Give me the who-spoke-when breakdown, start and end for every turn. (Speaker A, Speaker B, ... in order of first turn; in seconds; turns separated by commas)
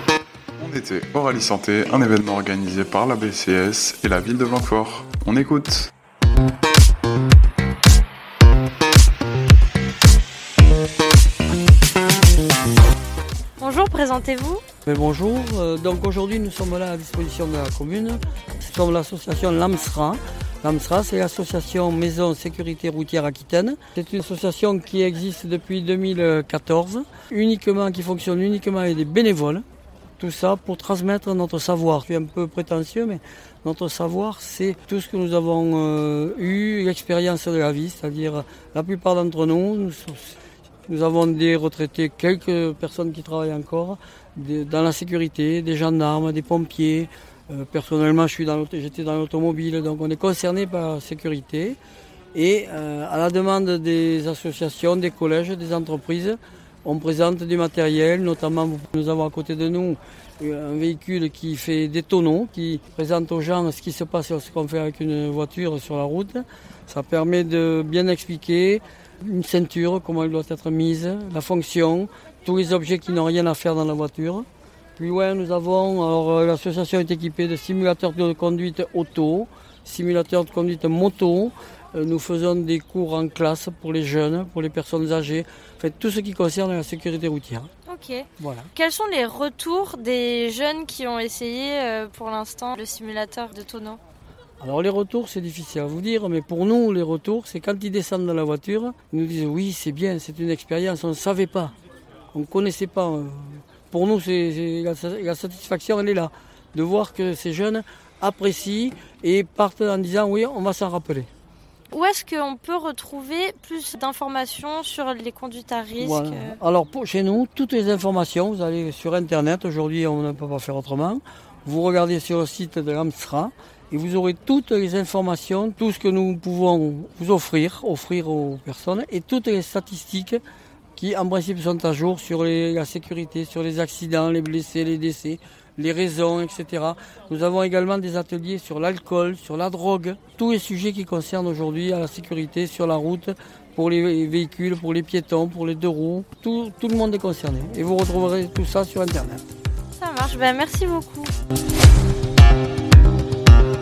Speaker A: 0.6-5.9, Speaker B: 13.6-14.6, Speaker C: 14.8-29.6, Speaker C: 30.2-51.8, Speaker C: 52.3-74.5, Speaker C: 75.0-87.7, Speaker B: 87.9-94.0, Speaker C: 88.4-88.7, Speaker C: 94.6-101.7, Speaker C: 102.3-111.3, Speaker B: 111.9-116.6, Speaker C: 116.0-130.4, Speaker C: 130.9-149.4, Speaker B: 149.9-151.3